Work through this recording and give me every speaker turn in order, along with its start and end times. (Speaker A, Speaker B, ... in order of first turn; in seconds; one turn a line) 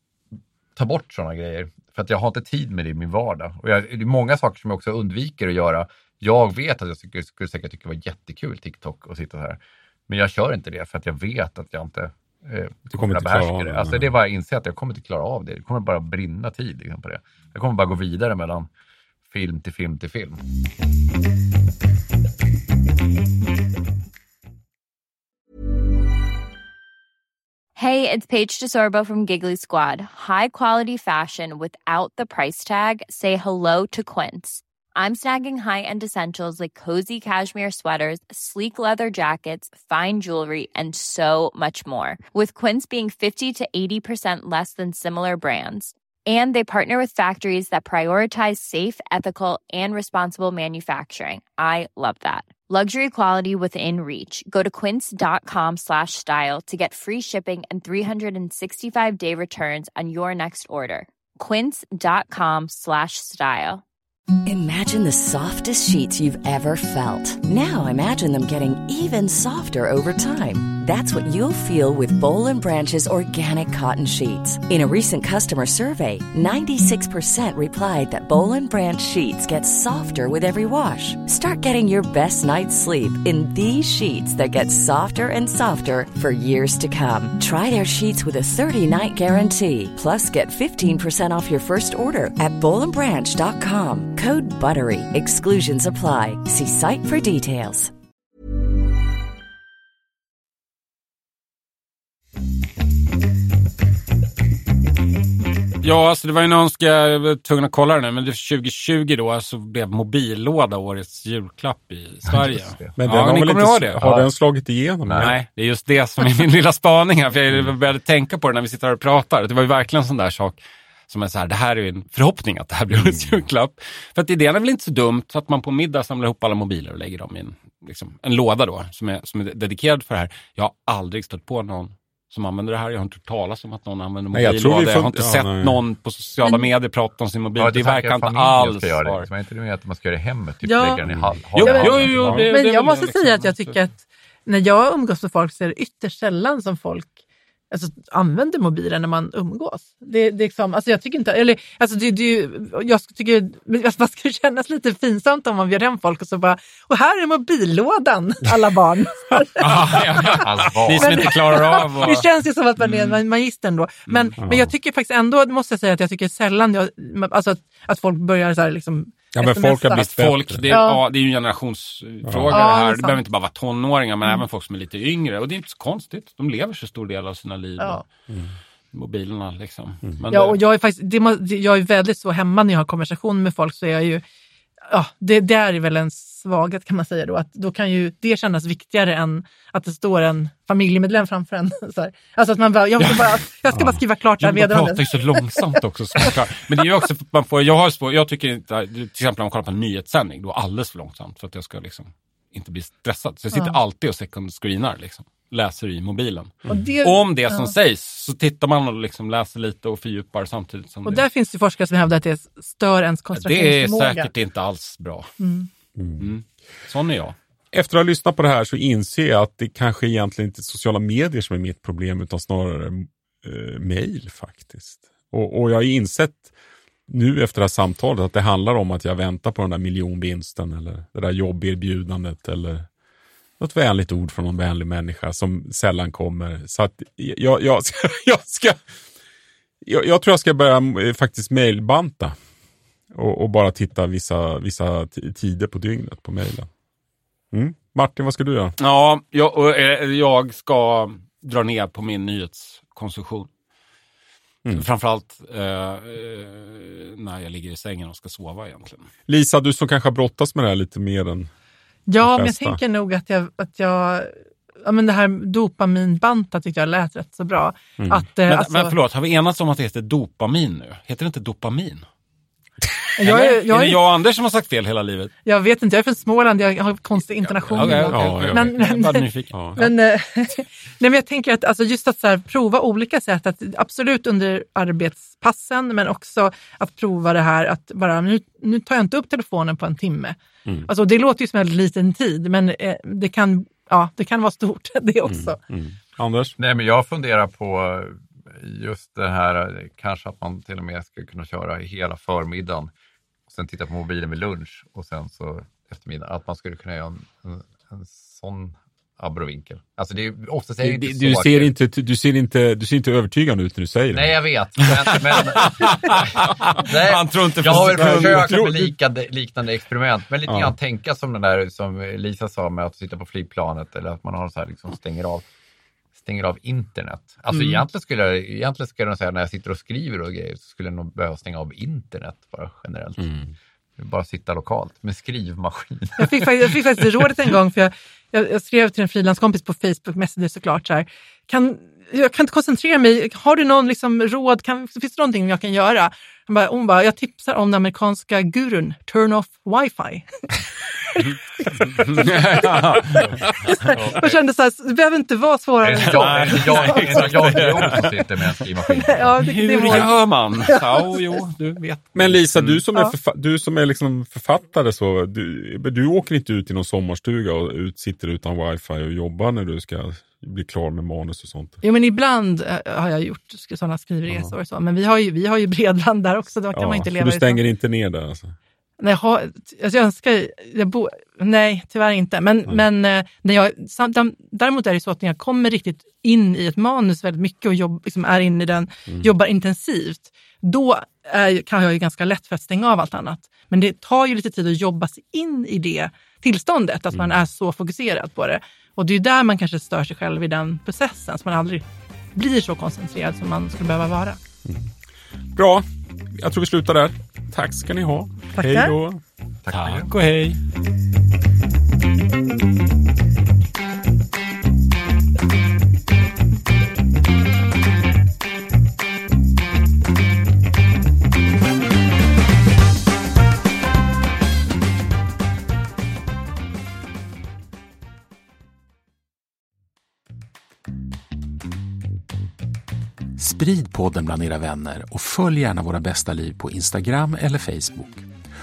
Speaker A: 0.7-18.7
Speaker B: 12.9-14.1
Speaker A: 19.3-20.4
Speaker C: 27.8-63.8
Speaker D: 64.5-97.9
Speaker E: 105.8-114.0
Speaker A: 112.3-112.9
Speaker B: 113.0-115.4
Speaker A: 114.0-114.3
Speaker A: 115.0-115.3
Speaker E: 115.2-139.3
Speaker B: 123.0-123.3
Speaker B: 134.3-135.8
Speaker A: 137.6-142.4
Speaker F: 140.6-141.0
Speaker B: 141.1-141.3
Speaker E: 141.5-143.8
Speaker F: 141.6-147.2
Speaker B: 142.1-142.5
Speaker F: 147.7-159.8
Speaker E: 159.6-162.3
Speaker A: 160.4-161.3
Speaker F: 160.9-170.0
Speaker E: 162.8-163.2
Speaker B: 164.4-164.7
Speaker B: 169.3-170.7
Speaker E: 169.9-178.1
Speaker F: 170.7-171.0
Speaker B: 172.2-172.7
Speaker F: 172.5-173.2
Speaker E: 178.9-180.6
Speaker F: 180.3-184.2
Speaker F: 184.9-196.3
Speaker E: 193.0-193.3
Speaker B: 193.7-194.0
Speaker E: 194.4-211.2
Speaker F: 203.5-203.8
Speaker F: 206.7-207.8
Speaker F: 211.1-214.3
Speaker E: 213.3-215.3
Speaker F: 215.4-215.7
Speaker B: 216.0-216.2
Speaker E: 216.2-217.3
Speaker B: 217.7-226.5
Speaker B: 227.1-232.9
Speaker B: 233.6-238.9
Speaker B: 239.8-242.3
Speaker B: 243.1-246.7
Speaker B: 247.5-248.7
Speaker E: 248.8-253.5
Speaker E: 254.7-259.1
Speaker B: 259.3-261.5
Speaker F: 262.1-264.3
Speaker B: 262.2-262.8
Speaker F: 264.8-268.9
Speaker B: 268.0-268.2
Speaker E: 268.5-272.0
Speaker F: 273.2-274.0
Speaker E: 273.2-275.3
Speaker F: 275.4-295.6
Speaker E: 277.6-279.6
Speaker B: 277.8-278.8
Speaker B: 279.5-279.9
Speaker B: 295.2-296.6
Speaker A: 296.6-302.9
Speaker A: 303.5-311.7
Speaker B: 310.8-314.4
Speaker A: 314.1-325.5
Speaker E: 315.1-318.6
Speaker B: 317.6-318.9
Speaker B: 320.4-320.7
Speaker A: 326.2-333.3
Speaker B: 333.2-333.5
Speaker A: 334.0-337.0
Speaker F: 336.2-350.3
Speaker F: 351.1-352.8
Speaker E: 352.1-353.4
Speaker F: 353.7-357.3
Speaker A: 353.9-354.3
Speaker A: 355.8-359.3
Speaker E: 356.0-358.5
Speaker F: 359.0-361.2
Speaker E: 359.4-362.8
Speaker B: 362.1-371.8
Speaker F: 371.8-377.6
Speaker B: 376.7-378.5
Speaker F: 379.0-401.8
Speaker F: 402.3-404.4
Speaker B: 405.5-409.2
Speaker F: 408.6-408.9
Speaker A: 409.6-410.1
Speaker E: 409.7-410.6
Speaker G: 433.4-438.2